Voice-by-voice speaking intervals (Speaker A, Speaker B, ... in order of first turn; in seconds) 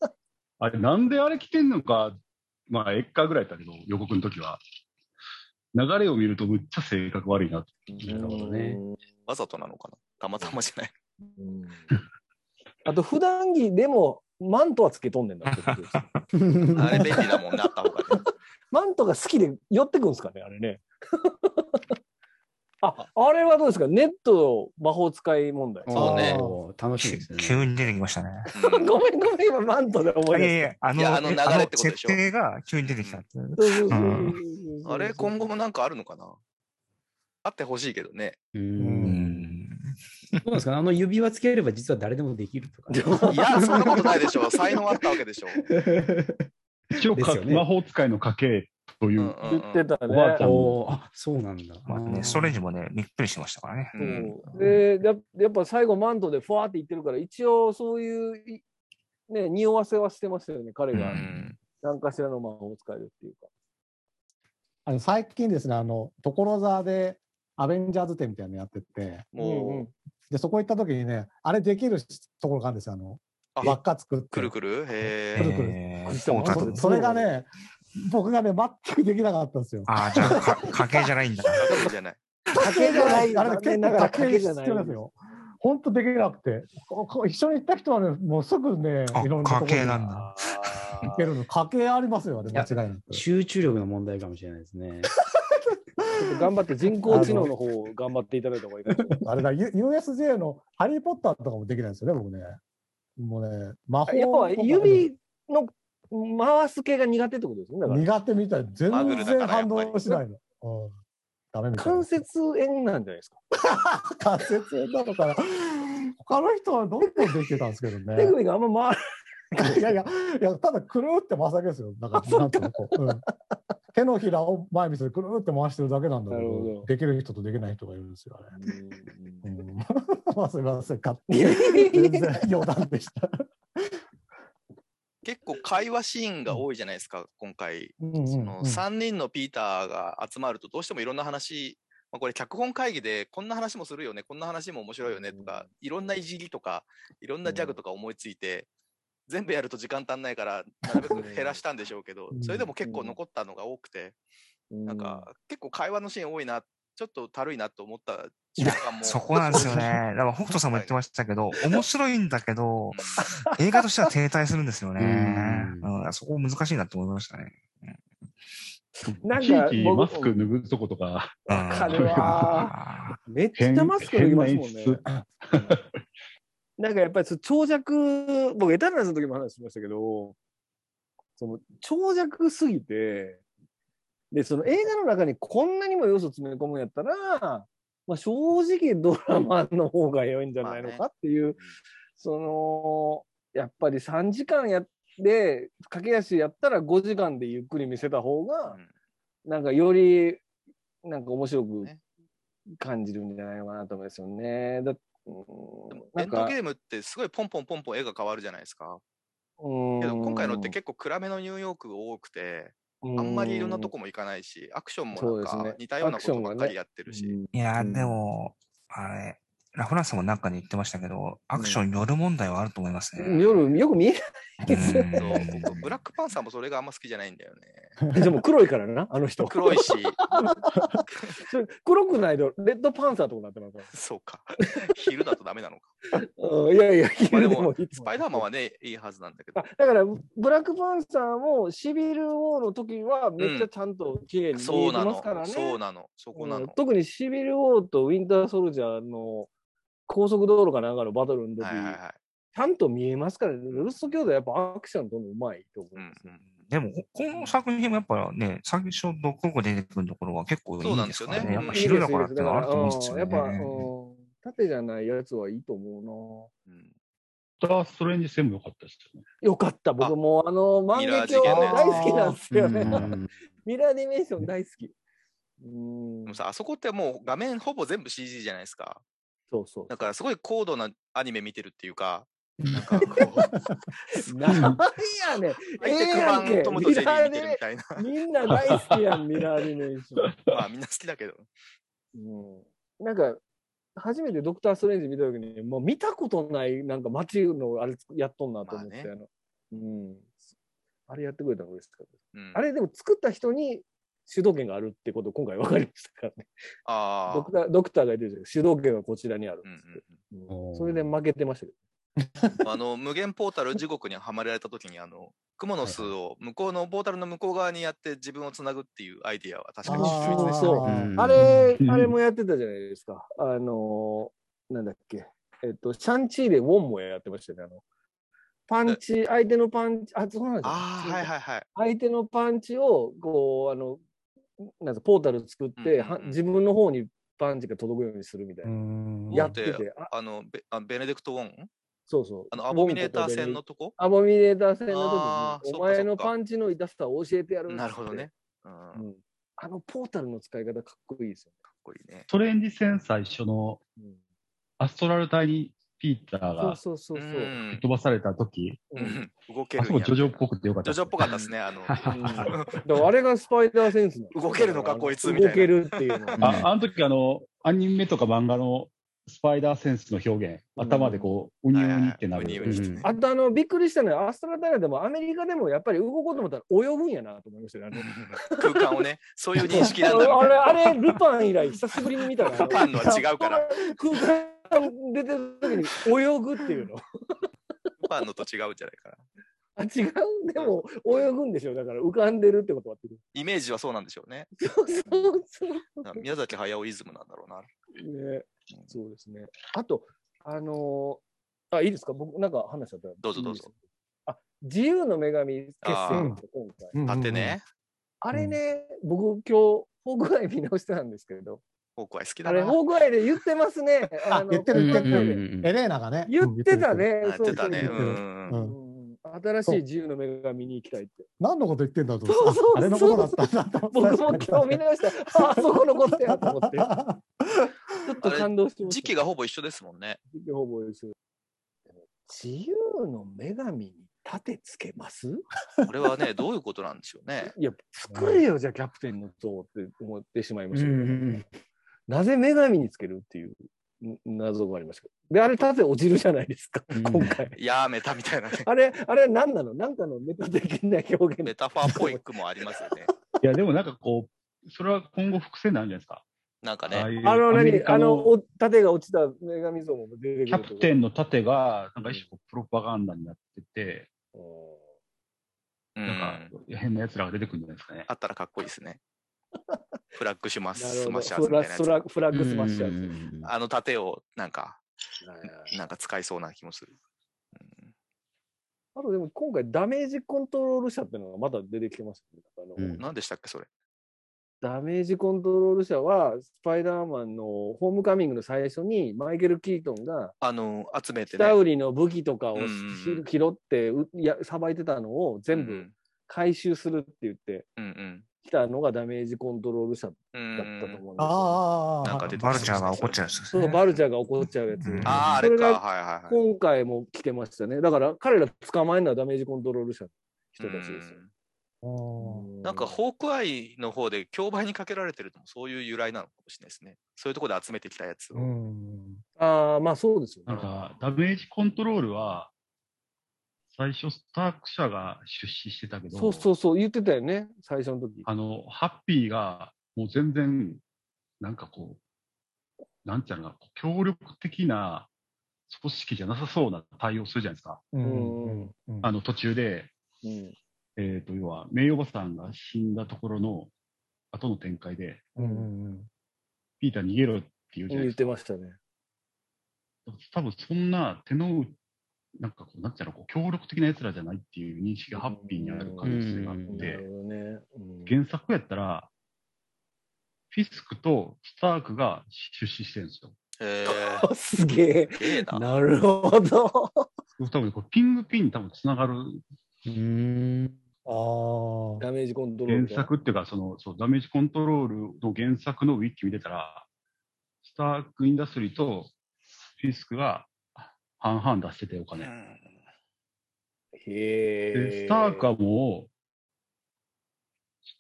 Speaker A: 0.6-4.6, 5.7-7.9, 46.9-49.4, 50.1-50.8, 169.0-172.5, 173.6-175.9, 267.6-269.2, 290.3-290.6, 321.8-322.2, 352.3-353.8, 354.8-356.8, 357.7-358.9, 359.8-361.3, 366.4-372.8, 453.4-456.2, 456.9-458.4, 460.5-464.1, 466.1-468.1, 520.5-522.5, 523.7-526.5, 528.3-530.8, 531.4-532.0, 533.0-535.1, 535.7-537.9, 539.0-539.9, 541.0-543.7, 544.3-545.3, 546.8-548.2, 550.1-551.8, 552.4-557.0, 558.1-559.1, 560.5-563.4, 567.4-569.4, 572.7-576.9, 577.6-579.1, 579.8-582.3, 584.7-586.1
Speaker B: 8.0-9.0, 11.4-11.9, 12.9-16.0, 16.9-17.2, 18.7-21.8, 22.8-25.9, 28.6-30.7, 33.6-35.5, 42.9-44.2, 49.4-50.4, 54.0-58.6, 59.3-61.2, 61.8-63.5, 69.4-69.9, 76.1-77.4, 82.5-85.1, 96.2-99.1, 104.1-108.1, 111.8-113.4, 118.2-120.0, 122.2-123.0, 126.3-126.9, 128.6-129.4, 131.3-132.3, 145.3-145.7, 147.5-147.8, 151.1-151.6, 152.8-153.2, 154.7-155.3, 169.2-170.5, 171.5-172.8, 173.3-175.8, 176.8-180.4, 181.4-183.4, 184.3-191.6, 192.2-198.8, 199.5-200.4, 201.0-201.9, 202.8-206.6, 209.6-210.8, 213.0-213.9, 215.1-218.2, 221.6-221.8, 223.2-225.5, 228.1-230.8, 231.3-233.9, 236.2-238.5, 239.6-245.8, 246.3-249.5, 250.1-252.0, 252.6-256.3, 261.4-266.5, 269.4-274.9, 275.6-276.4, 279.5-280.1, 283.0-283.3, 284.2-290.4, 292.1-293.4, 294.0-300.4, 301.1-306.5, 307.3-311.8, 319.9-327.8, 328.7-334.0, 334.6-338.7, 339.3-340.1, 342.1-348.3, 348.9-351.5, 356.6-357.6, 358.9-359.2, 361.2-361.5, 362.1-366.5, 370.8-371.3, 373.0-378.8, 379.7-387.0, 389.8-393.2, 394.6-396.3, 398.0-403.8, 404.3-407.0, 408.2-411.6, 412.4-415.4, 416.3-421.3, 422.3-426.9, 428.1-429.2, 430.3-431.1, 432.2-435.4, 437.5-441.4, 442.1-447.6, 448.6-452.2, 457.2-460.9, 464.4-464.8, 470.8-473.1, 475.2-475.8, 479.0-483.0, 484.6-490.3, 491.3-497.7, 498.4-501.6, 503.5-511.2, 512.2-513.0, 519.4-520.7, 526.1-528.3, 538.0-538.7, 540.2-540.6, 545.4-545.7, 547.9-548.8, 555.1-558.1, 563.9-567.1, 572.0-573.1, 584.0-585.5
Speaker C: 8.0-8.8, 16.3-17.2, 25.9-27.7, 38.5-39.5, 40.5-44.1, 45.7-46.5, 47.1-47.7, 50.4-52.6, 92.5-95.1, 97.2-97.5, 165.0-165.9, 272.5-273.3, 310.5-311.1, 315.8-316.1, 320.8-321.7, 361.9-362.6, 366.4-366.7, 372.6-373.1, 408.3-408.6, 414.8-415.7, 438.1-438.4, 440.7-441.5, 446.9-447.4, 472.3-473.5, 482.8-483.1, 556.0-556.9, 569.9-570.8
Speaker D: 9.3-10.9, 16.8-18.2, 26.0-26.4, 28.6-28.9, 31.0-32.2, 34.9-36.4, 37.4-38.4, 43.3-45.6, 49.2-49.9, 54.0-54.4, 61.1-61.5, 69.3-69.9, 74.3-75.5, 81.6-82.2, 90.4-91.2, 108.9-110.0, 135.2-148.7, 149.3-154.2, 154.9-159.8, 160.7-160.9, 162.9-163.2, 190.6-191.0, 205.9-209.0, 210.0-217.4, 225.2-228.0, 229.5-230.2, 233.9-235.9, 237.3-239.6, 243.4-243.7, 244.6-246.8, 251.6-252.2, 253.7-254.2, 256.0-256.4, 260.8-261.9, 266.7-266.9, 270.9-272.4, 276.3-279.0, 279.9-283.5, 285.8-288.0, 290.5-291.5, 298.6-299.1, 302.3-302.6, 306.9-307.5, 309.6-310.2, 312.6-320.8, 330.6-331.7, 335.8-336.4, 339.3-341.7, 342.5-344.0, 344.9-346.3, 347.7-349.0, 351.8-352.3, 357.1-357.8, 359.0-362.8, 364.3-366.5, 371.7-373.1, 377.9-380.9, 382.5-383.7, 388.0-389.3, 390.6-390.8, 393.3-394.5, 395.1-395.4, 396.0-397.7, 403.2-403.7, 405.8-406.3, 407.1-407.6, 412.0-412.8, 417.2-418.6, 428.2-430.2, 435.9-437.5, 447.6-448.7, 451.4-453.1, 456.6-457.1, 466.0-466.5, 468.1-469.0, 470.2-472.0, 473.4-474.8, 475.7-476.9, 477.6-477.9, 483.0-483.7, 490.4-491.6, 492.6-493.2, 495.5-495.9, 497.8-498.3, 500.3-501.0, 502.0-503.2, 505.1-506.4, 510.6-511.3, 512.6-518.5, 563.6-564.3, 565.2-565.6, 582.2-582.8
Speaker E: 15.5-16.3, 27.0-28.5, 30.3-34.4, 39.0-40.4, 51.9-54.6, 60.9-61.5, 75.4-76.8, 79.9-81.8, 89.1-90.3, 159.0-168.0, 171.5-173.2, 217.5-223.7, 224.6-225.9, 256.6-263.8, 502.3-503.9, 504.9-505.4
Speaker F: 25.9-26.6, 38.8-39.1, 64.8-69.3, 70.3-74.5, 75.3-75.8, 76.5-77.5, 78.0-80.7, 82.6-90.2, 91.1-93.2, 96.0-96.5, 97.1-97.5, 99.2-102.6, 103.2-105.1, 107.9-110.9, 111.5-112.2, 113.6-118.4, 119.6-123.2, 123.9-128.6, 129.4-133.3, 138.0-138.8, 152.3-152.7, 271.4-272.4, 312.4-312.6, 319.9-321.2, 338.6-339.5, 382.7-383.3, 406.1-406.4, 406.9-407.6, 414.3-418.8, 421.4-427.7, 501.2-503.0, 511.8-512.5, 518.3-519.2, 537.9-539.1, 545.4-546.1, 571.1-572.0